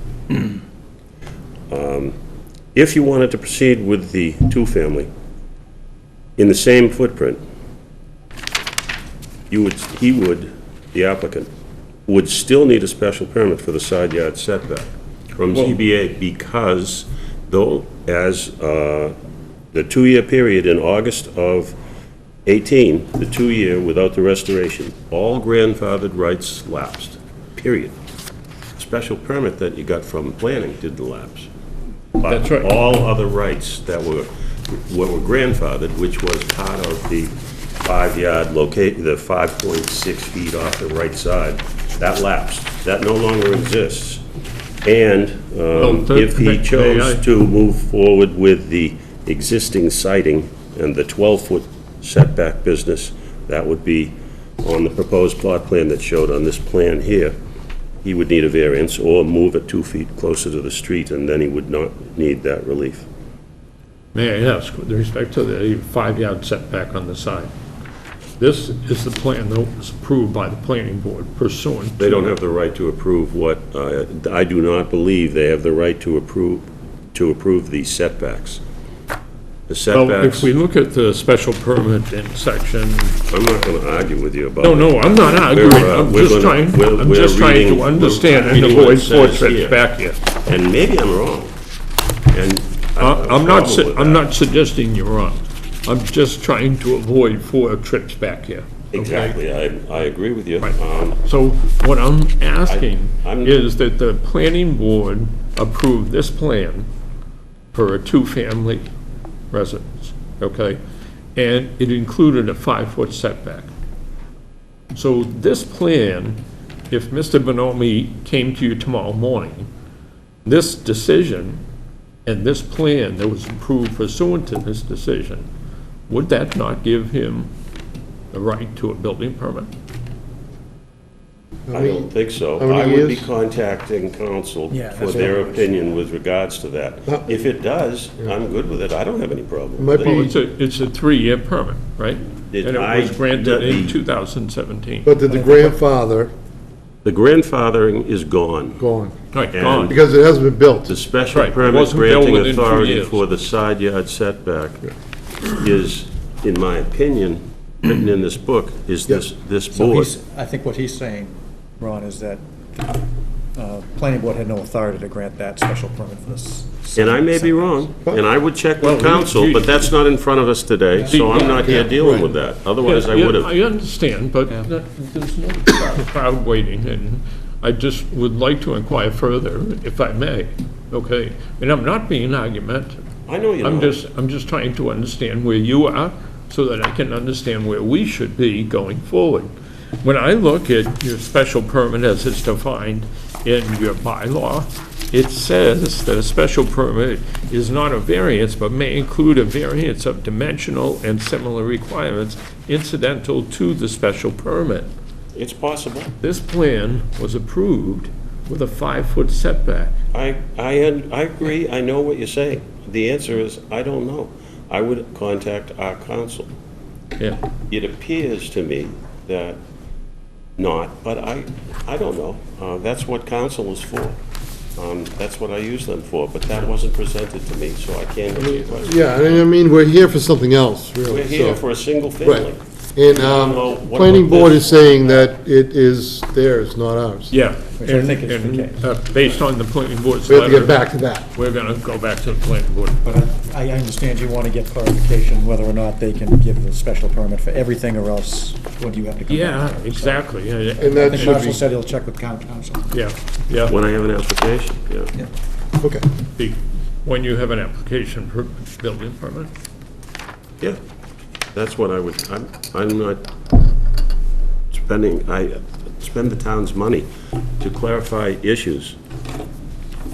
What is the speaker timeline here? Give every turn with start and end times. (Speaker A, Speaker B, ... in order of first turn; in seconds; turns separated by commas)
Speaker A: 1.7-2.1, Speaker A: 2.8-5.1, Speaker A: 6.4-7.4, Speaker A: 9.5-11.5, Speaker A: 12.1-19.1, Speaker A: 19.7-21.8, Speaker A: 22.5-27.9, Speaker A: 28.8-31.5, Speaker A: 32.2-44.2, Speaker B: 32.2-32.7, Speaker A: 44.8-57.4, Speaker B: 45.7-47.2, Speaker A: 58.0-63.1, Speaker B: 64.1-67.5, Speaker B: 68.4-72.3, Speaker A: 72.0-78.6, Speaker A: 79.7-80.5, Speaker B: 79.9-83.2, Speaker A: 83.3-89.8, Speaker B: 84.6-90.2, Speaker A: 90.5-91.5, Speaker A: 92.3-94.3, Speaker B: 93.0-99.4, Speaker A: 98.9-101.2, Speaker B: 100.6-106.9, Speaker A: 102.7-103.6, Speaker B: 107.7-108.8, Speaker B: 109.5-110.8, Speaker B: 111.3-113.7, Speaker B: 114.9-116.4, Speaker B: 116.9-119.7, Speaker B: 120.5-121.6, Speaker B: 122.2-125.5, Speaker B: 126.1-127.5, Speaker B: 128.3-129.7, Speaker C: 131.7-133.3, Speaker A: 131.7-140.3, Speaker D: 134.7-135.9, Speaker C: 139.8-140.3, Speaker B: 140.0-145.1, Speaker A: 142.5-144.0, Speaker C: 145.1-146.3, Speaker D: 145.3-145.8, Speaker A: 147.1-148.8, Speaker C: 148.8-149.2, Speaker B: 149.3-149.9, Speaker A: 149.5-149.9, Speaker C: 149.9-150.9, Speaker A: 150.8-154.9, Speaker B: 151.3-153.2, Speaker A: 155.4-160.1, Speaker D: 159.7-167.9, Speaker A: 166.9-173.5, Speaker B: 168.8-169.9, Speaker D: 171.0-172.0, Speaker B: 171.1-172.3, Speaker B: 172.8-183.0, Speaker A: 183.3-184.0, Speaker B: 183.6-189.5, Speaker B: 190.0-204.9, Speaker A: 205.3-206.1, Speaker B: 206.2-209.9, Speaker A: 210.1-216.5, Speaker A: 217.7-219.6, Speaker A: 220.6-224.2, Speaker A: 224.8-229.0, Speaker C: 228.4-231.6, Speaker A: 231.1-234.9, Speaker C: 232.2-237.3, Speaker B: 237.3-240.8, Speaker D: 237.8-239.4, Speaker C: 240.3-241.3, Speaker B: 241.3-243.0, Speaker D: 243.0-250.2, Speaker B: 249.3-251.6, Speaker C: 250.8-251.6, Speaker D: 250.8-252.9, Speaker B: 252.9-253.8, Speaker A: 253.7-255.1, Speaker B: 256.4-259.5, Speaker A: 261.5-263.2, Speaker A: 264.7-267.1, Speaker A: 267.6-269.0